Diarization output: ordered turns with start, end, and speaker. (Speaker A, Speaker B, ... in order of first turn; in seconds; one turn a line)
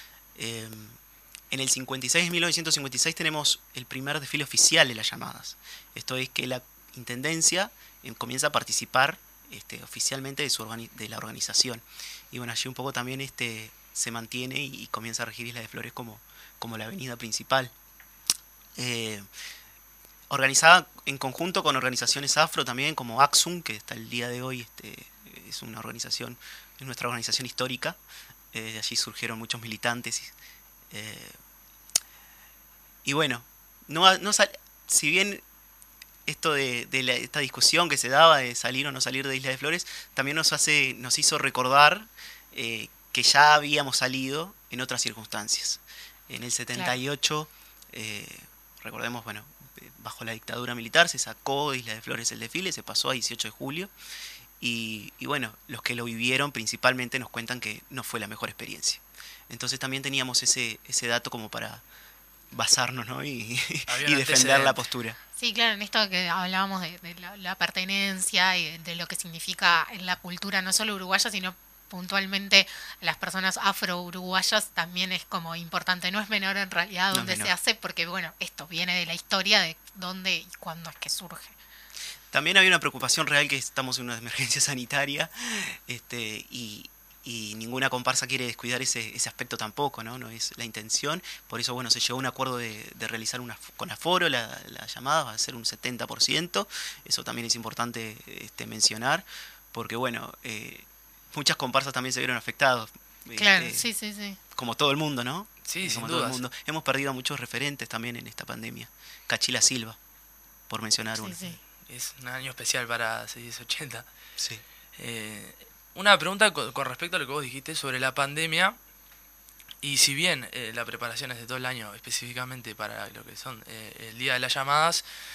Speaker A: 0.4-1.0
Speaker A: 1.5-17.7
Speaker A: 18.8-19.3
Speaker A: 20.3-28.0
Speaker A: 28.5-30.3
Speaker A: 30.9-31.4
Speaker A: 33.0-35.4
Speaker A: 36.3-53.9
Speaker A: 54.6-61.8
Speaker A: 62.5-65.2
Speaker B: 63.9-64.8
Speaker C: 65.4-81.6
Speaker A: 77.1-77.5
Speaker A: 82.3-103.9
Speaker C: 103.4-104.4
Speaker A: 104.5-110.0
Speaker B: 105.7-106.4
Speaker A: 110.7-111.6
Speaker C: 111.2-111.6
Speaker B: 111.9-114.1
Speaker A: 114.4-114.6
Speaker B: 115.0-118.8
Speaker B: 119.8-125.0